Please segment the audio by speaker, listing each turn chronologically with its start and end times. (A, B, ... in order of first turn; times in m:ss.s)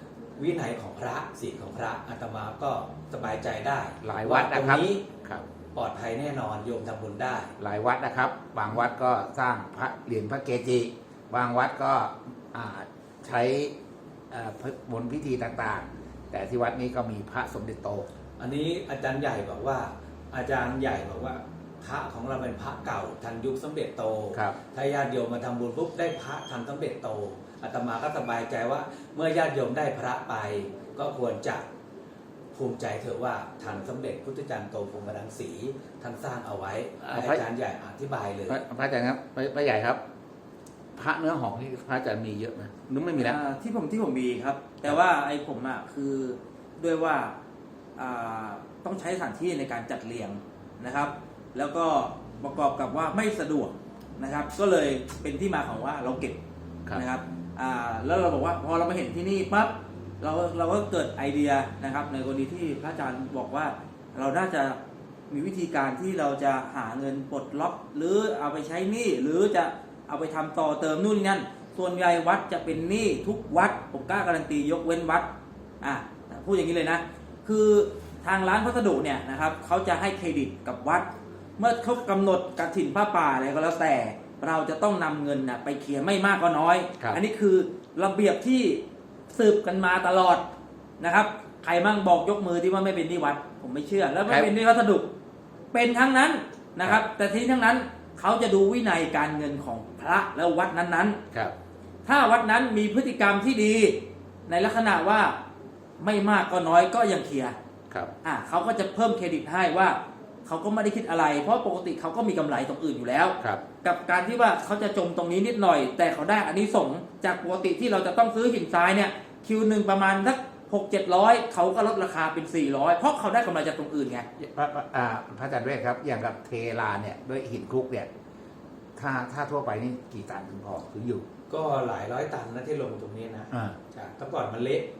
0:00.4-0:05.0 A
0:04.0-0:05.5 B
0:05.8-0:07.5 A
0:07.6-0:13.8 B
0:14.3-0:18.1 B
0:18.4-0:31.7 A
0:32.5-0:38.6 A
0:37.0-0:37.4 B
0:38.5-0:40.0 B
0:41.0-0:43.4 B
0:43.2-0:47.4 C
0:48.0-0:56.4 C
0:56.9-1:04.8 C
1:05.3-1:15.3 C
1:15.8-1:30.5 C
1:31.0-1:35.1 C
1:35.7-1:41.2 C
1:42.0-1:45.4 C
1:46.0-1:47.6 C
1:48.2-2:04.3 C
2:04.4-2:08.1 B
2:09.0-2:11.3 B
2:11.5-2:14.9 A
2:13.5-2:13.8 B